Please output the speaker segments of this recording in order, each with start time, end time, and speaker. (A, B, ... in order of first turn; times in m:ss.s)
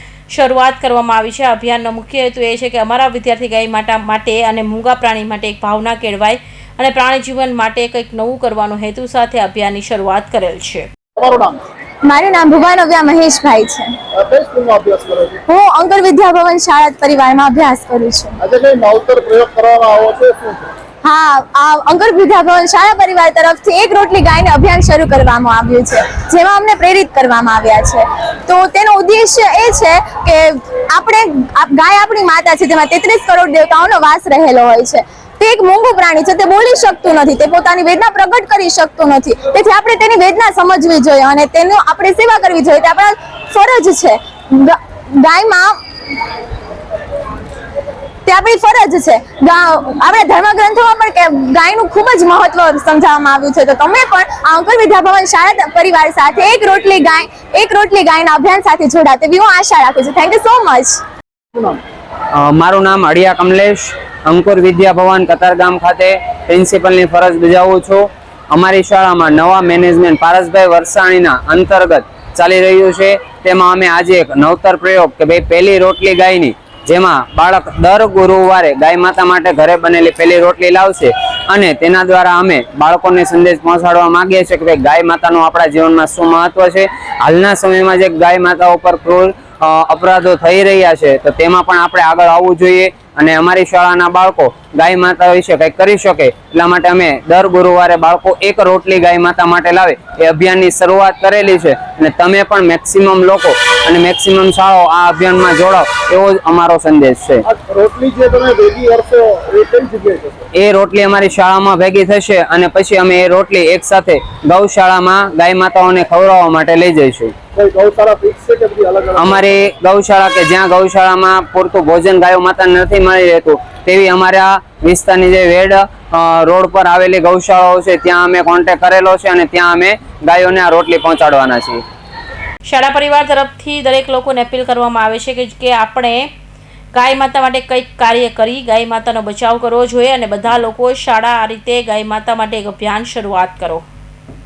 0:00.3-0:10.9 A
0:11.2-0:11.6 B
0:12.0-0:13.9 C
0:14.1-0:15.4 B
0:15.5-0:18.4 C
0:18.4-0:20.7 B
0:21.0-0:45.7 C
0:48.2-1:01.0 C
1:01.5-1:01.8 B
1:02.3-1:47.4 D
1:47.4-1:50.5 B
1:50.5-1:57.3 D
1:57.5-1:59.6 B
1:59.2-2:11.8 D
2:12.6-2:16.3 A
2:16.9-2:23.8 A